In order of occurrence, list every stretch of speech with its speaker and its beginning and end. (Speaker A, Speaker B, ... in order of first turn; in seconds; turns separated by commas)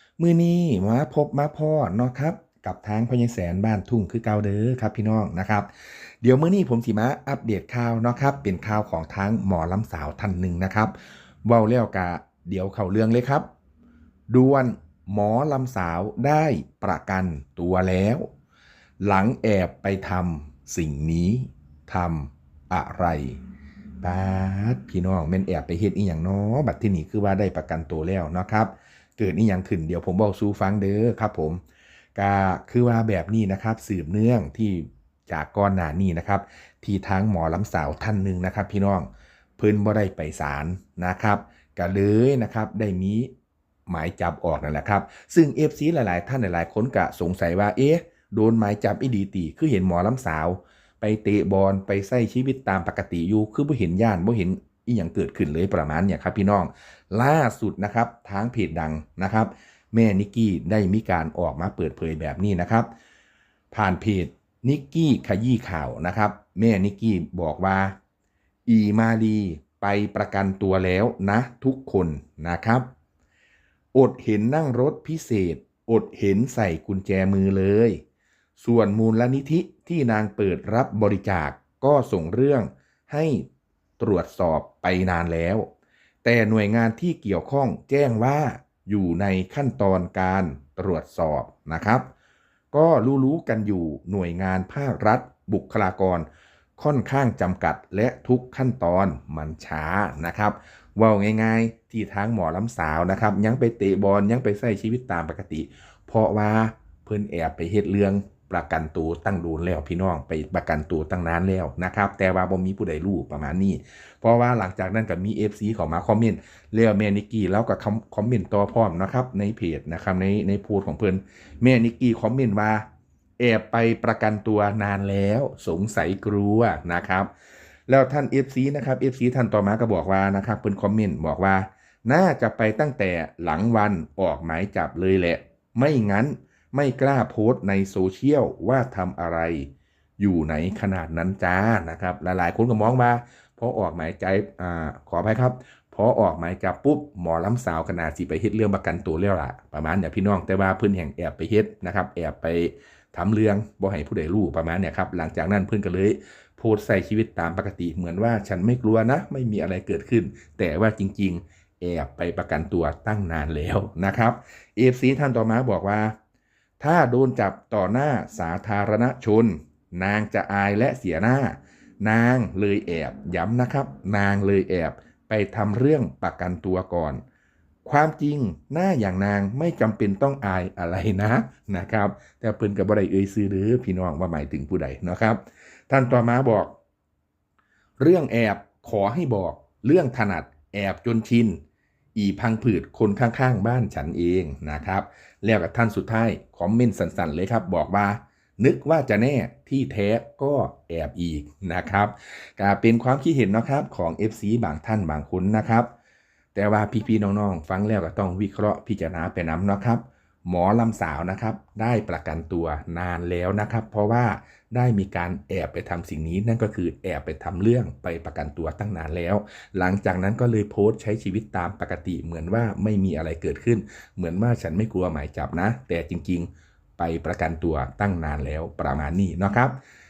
Speaker A: 0.2-5.7, Speaker A: 6.2-10.9, Speaker A: 11.4-13.5, Speaker A: 14.3-18.3, Speaker A: 19.0-23.4, Speaker A: 24.0-31.6, Speaker A: 32.1-43.3, Speaker A: 43.9-62.9, Speaker A: 63.7-68.0, Speaker A: 68.7-72.9, Speaker A: 73.9-78.0, Speaker A: 78.6-83.5, Speaker A: 84.0-85.7, Speaker A: 86.2-92.1, Speaker A: 92.7-122.8, Speaker A: 123.4-127.3, Speaker A: 127.9-166.1, Speaker A: 166.8-177.2, Speaker A: 177.8-186.7, Speaker A: 188.0-191.6, Speaker A: 192.1-205.9, Speaker A: 206.5-229.8